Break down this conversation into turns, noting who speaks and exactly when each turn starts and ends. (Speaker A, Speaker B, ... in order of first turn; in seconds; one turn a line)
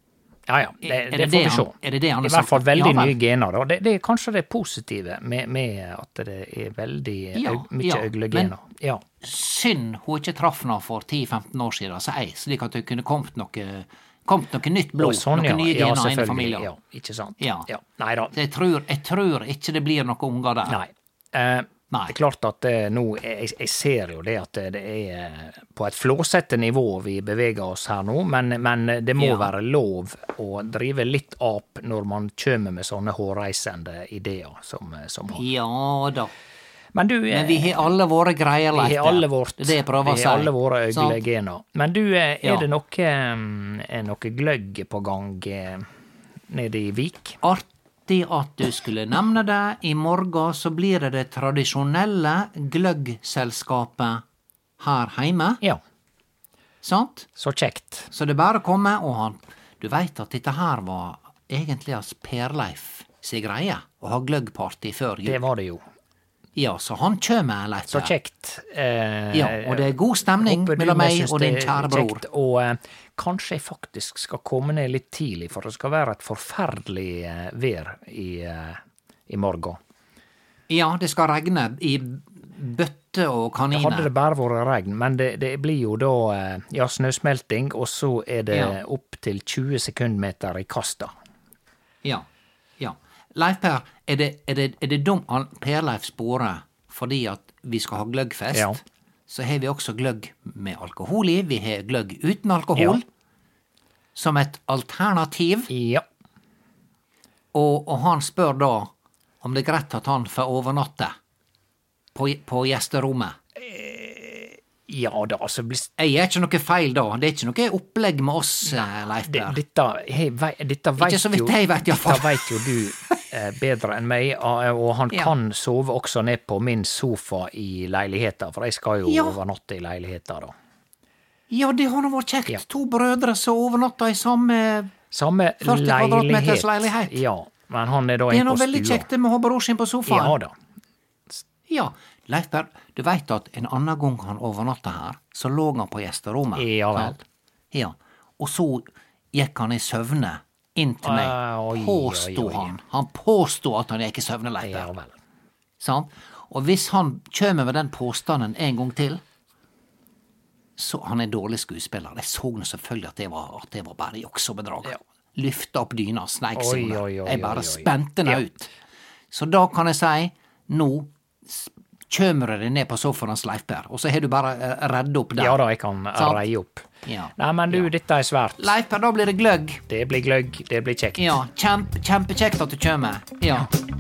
Speaker A: 0.5-9.0
Speaker B: 0.8-3.1
Speaker B: 7.3-8.5
Speaker B: 9.2-16.7
Speaker A: 15.0-18.3
Speaker B: 17.4-17.7
Speaker B: 18.3-20.8
Speaker A: 20.7-35.4
Speaker B: 29.2-29.5
Speaker B: 35.3-36.3
Speaker A: 36.9-37.9
Speaker B: 37.3-41.2
Speaker A: 38.7-45.9
Speaker A: 46.5-47.4
Speaker B: 47.4-54.2
Speaker B: 54.8-55.6
Speaker B: 56.8-57.3
Speaker A: 57.4-58.1
Speaker B: 58.1-65.4
Speaker A: 65.3-65.8
Speaker B: 66.6-68.1
Speaker A: 67.9-79.8
Speaker B: 69.3-72.2
Speaker B: 80.7-84.1
Speaker A: 83.7-91.1
Speaker B: 88.5-88.8
Speaker B: 92.8-103.1
Speaker A: 98.5-98.8
Speaker B: 104.2-105.7
Speaker A: 105.7-106.0
Speaker B: 107.5-108.9
Speaker B: 109.4-111.1
Speaker B: 112.2-113.4
Speaker A: 113.6-115.9
Speaker B: 116.0-119.6
Speaker A: 118.7-130.5
Speaker B: 121.0-123.2
Speaker B: 129.1-129.4
Speaker B: 131.5-134.9
Speaker A: 135.1-139.1
Speaker B: 135.6-137.2
Speaker B: 138.3-140.4
Speaker A: 140.1-140.5
Speaker B: 141.7-147.2
Speaker A: 146.6-147.2
Speaker B: 147.7-154.9
Speaker A: 151.0-152.8
Speaker A: 154.6-155.2
Speaker B: 155.8-159.2
Speaker B: 160.8-168.7
Speaker A: 166.6-168.4
Speaker B: 169.3-175.6
Speaker A: 175.4-176.8
Speaker B: 176.2-176.4
Speaker B: 177.1-177.9
Speaker A: 177.4-178.7
Speaker B: 178.6-179.8
Speaker A: 179.9-181.4
Speaker B: 181.2-183.7